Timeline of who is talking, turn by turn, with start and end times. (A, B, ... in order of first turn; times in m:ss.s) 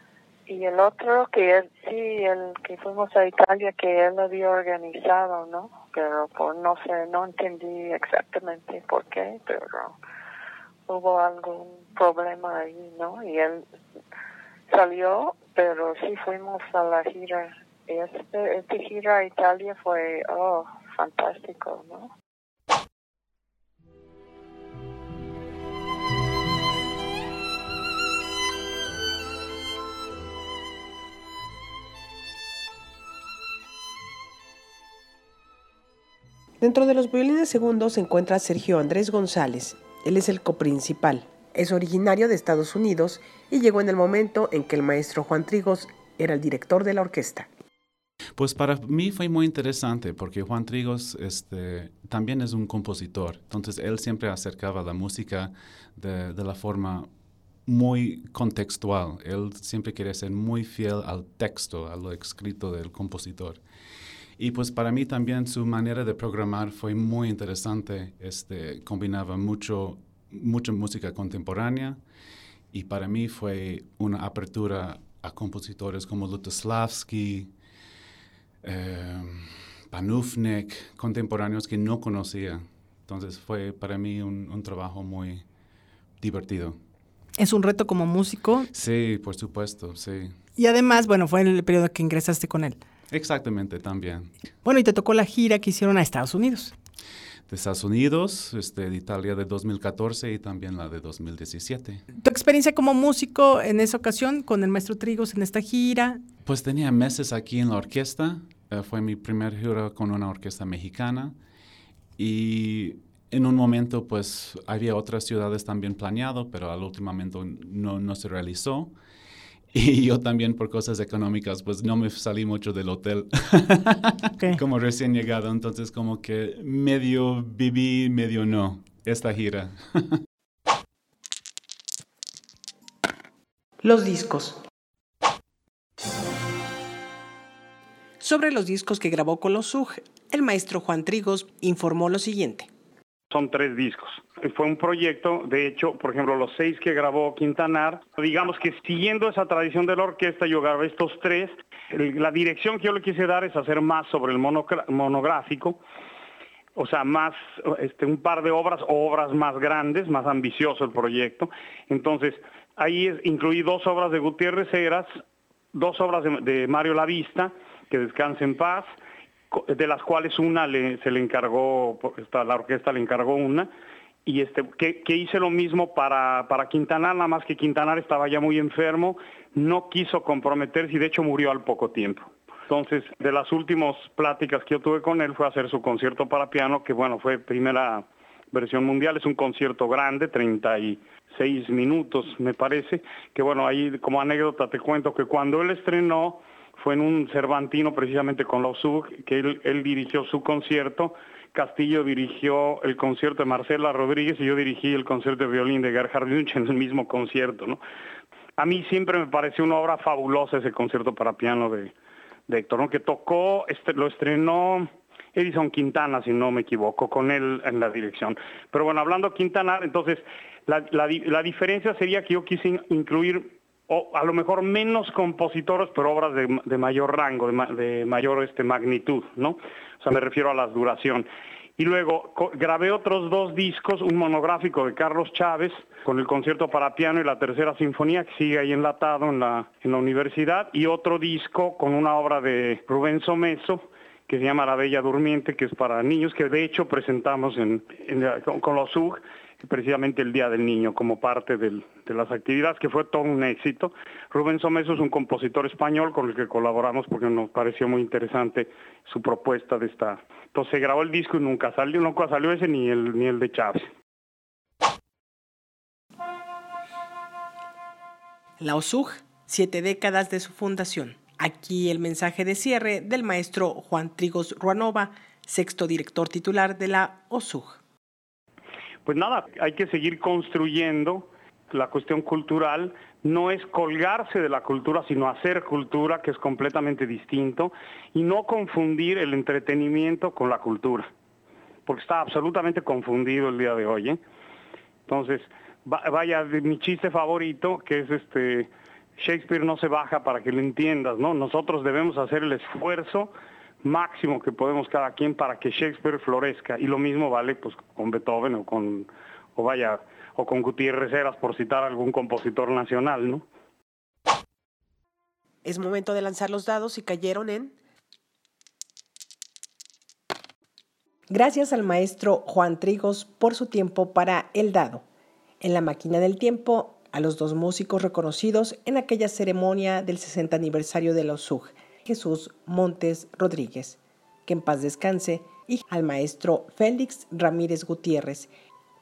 0:00.5-0:10.0 A
0:10.9-0:13.6 A
0:14.7-0:22.1 A
0:36.6-0:47.5 B
0:48.4-0:57.1 C
0:57.6-1:03.6 C
1:04.4-1:12.0 C
1:12.7-1:17.5 C
1:18.6-1:25.4 C
1:26.2-1:26.8 C
1:27.4-1:28.7 D
1:28.7-1:30.4 C
1:30.6-1:32.8 D
1:33.1-1:34.3 C
1:34.6-1:36.7 D
1:37.5-1:42.0 C
1:42.2-1:46.2 D
1:46.4-1:51.4 C
1:52.2-1:58.9 C
1:59.7-2:10.2 C
2:13.8-2:14.6 B
2:18.2-2:22.7 E
2:23.3-2:35.8 F
2:36.8-2:45.1 F
2:45.7-2:48.9 F
2:49.5-2:53.7 F
2:54.2-3:27.8 F
3:28.6-3:31.9 F
3:32.5-3:51.3 F
3:51.8-4:23.9 F
4:28.6-4:37.8 E
4:39.0-4:51.1 F
4:51.9-4:54.2 F
4:55.1-5:13.4 F
5:15.6-5:17.8 B
5:21.3-5:25.0 E
5:25.6-5:38.5 E